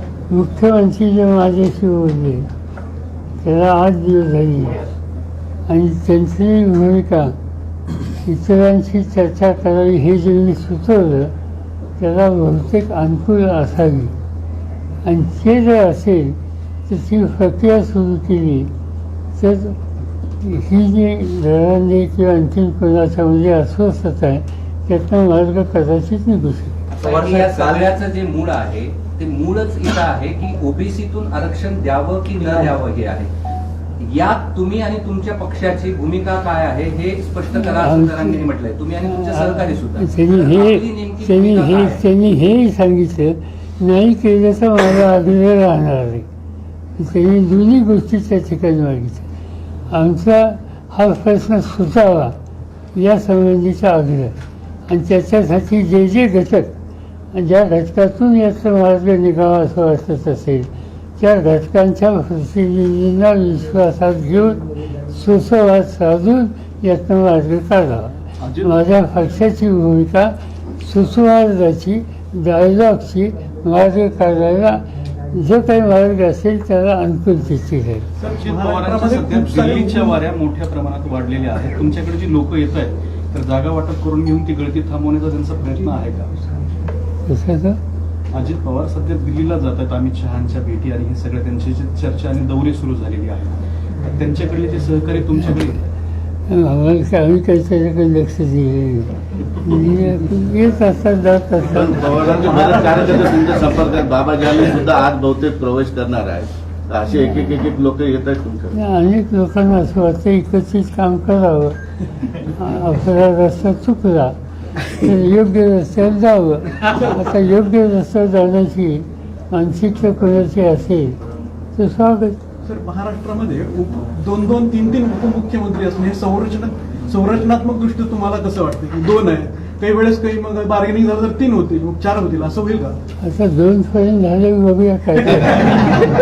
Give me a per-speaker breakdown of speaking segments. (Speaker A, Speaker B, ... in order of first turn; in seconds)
Speaker A: 0.3-2.5, 3.4-4.8, 5.7-7.3, 8.2-11.3, 12.0-14.1, 15.1-18.7, 19.4-19.8, 20.4-27.5, 37.6-38.5, 39.1-46.3, 47.0-49.3, 49.9-52.4, 53.0-54.4, 54.9-56.8, 57.3-74.8, 75.3-78.1, 87.3-87.8, 96.5-102.2, 108.8-111.8, 112.5-121.2, 121.8-122.4, 133.2-136.1
Speaker B: 26.9-33.3, 34.0-42.0
Speaker C: 68.4-68.8, 78.2-86.3, 88.3-95.9
Speaker D: 78.2-80.2, 102.4-103.6, 122.7-132.9
Speaker E: 101.7-108.7